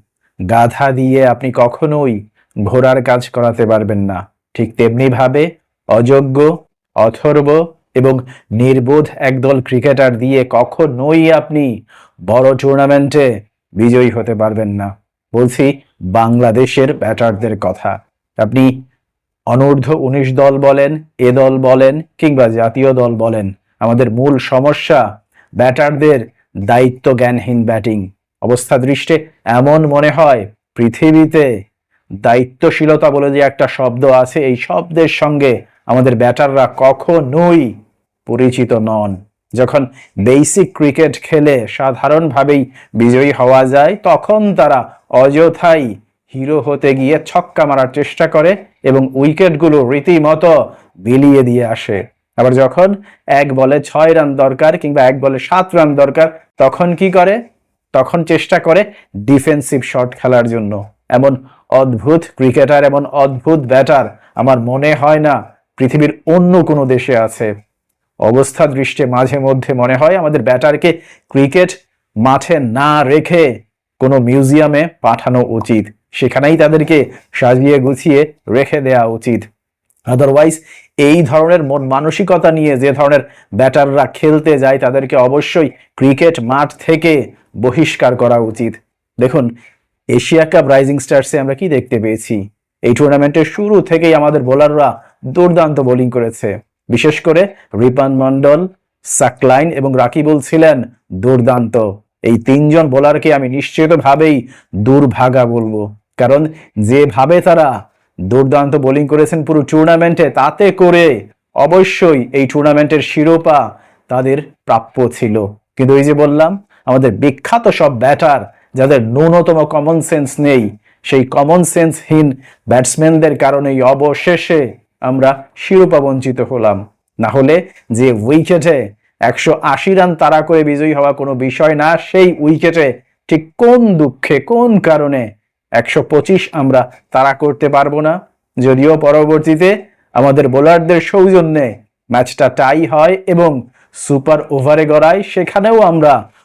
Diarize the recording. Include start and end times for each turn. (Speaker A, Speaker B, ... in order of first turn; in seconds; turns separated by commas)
Speaker A: 0.5-2.1, Speaker A: 2.7-6.5, Speaker A: 7.0-11.7, Speaker A: 12.3-13.3, Speaker A: 13.8-18.8, Speaker A: 19.5-25.0, Speaker A: 25.6-31.5, Speaker A: 32.2-37.7, Speaker A: 38.3-57.4, Speaker A: 57.9-67.5, Speaker A: 68.2-73.5, Speaker A: 74.0-79.4, Speaker A: 80.1-89.5, Speaker A: 90.1-98.6, Speaker A: 99.1-107.7, Speaker A: 108.3-111.1, Speaker A: 111.6-135.2, Speaker A: 135.8-146.1